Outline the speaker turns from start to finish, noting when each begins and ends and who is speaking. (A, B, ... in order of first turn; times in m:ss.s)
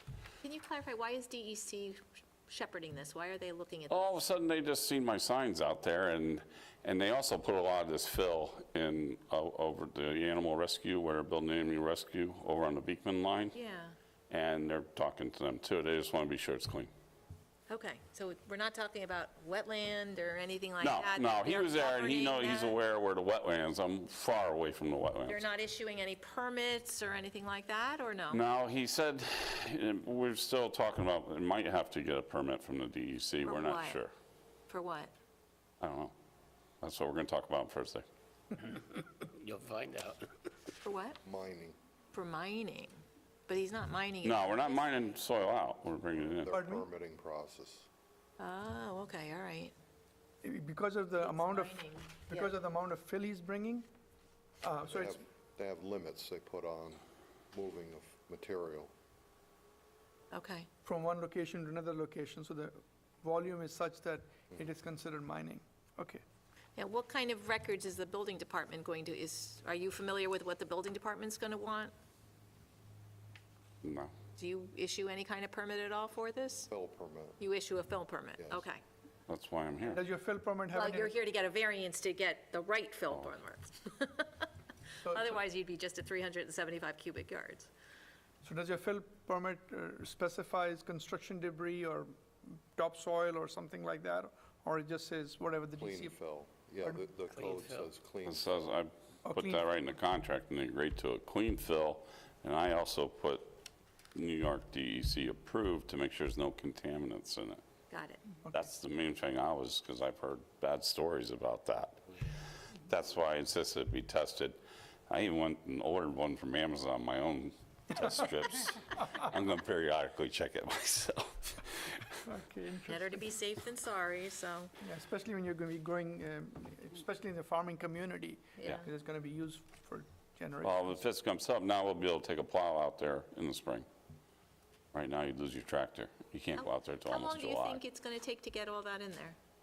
0:00.4-0:04.2 A
0:03.9-0:13.6 B
0:13.5-0:14.0 A
0:14.3-0:16.9 B
0:17.7-0:22.8 A
0:20.8-0:25.5 B
0:25.2-0:28.4 A
0:28.3-0:34.1 B
0:33.4-0:34.0 A
0:34.7-0:35.1 A
0:35.8-0:36.1 B
0:36.8-0:38.0 B
0:38.6-0:40.5 C
0:40.8-0:41.2 A
0:41.2-0:41.8 D
0:42.1-0:44.8 A
0:44.2-0:46.5 B
0:46.3-0:47.9 D
0:46.5-0:46.8 E
0:48.4-0:49.7 A
0:50.4-0:53.9 E
0:51.2-0:52.5 A
0:54.6-0:55.2 E
0:54.9-0:58.9 D
1:00.3-1:00.7 A
1:00.8-1:06.2 E
1:06.8-1:11.9 A
1:13.8-1:14.1 B
1:14.4-1:16.7 A
1:16.7-1:17.4 D
1:17.4-1:18.8 A
1:18.4-1:18.7 D
1:19.3-1:20.0 B
1:19.9-1:21.1 E
1:20.7-1:24.5 A
1:23.1-1:23.3 B
1:25.0-1:25.5 E
1:25.2-1:27.7 A
1:28.4-1:36.2 E
1:35.8-1:38.8 D
1:37.3-1:37.9 C
1:38.3-1:43.6 B
1:39.2-1:39.6 E
1:44.1-1:47.6 B
1:47.9-1:48.2 A
1:48.5-1:52.0 B
1:52.9-1:54.6 B
1:55.1-2:02.2 B
2:02.2-2:03.2 E
2:02.9-2:04.7 A
2:04.8-2:10.8 E
2:10.6-2:13.9 B
2:14.9-2:17.8 B
2:16.6-2:19.4 A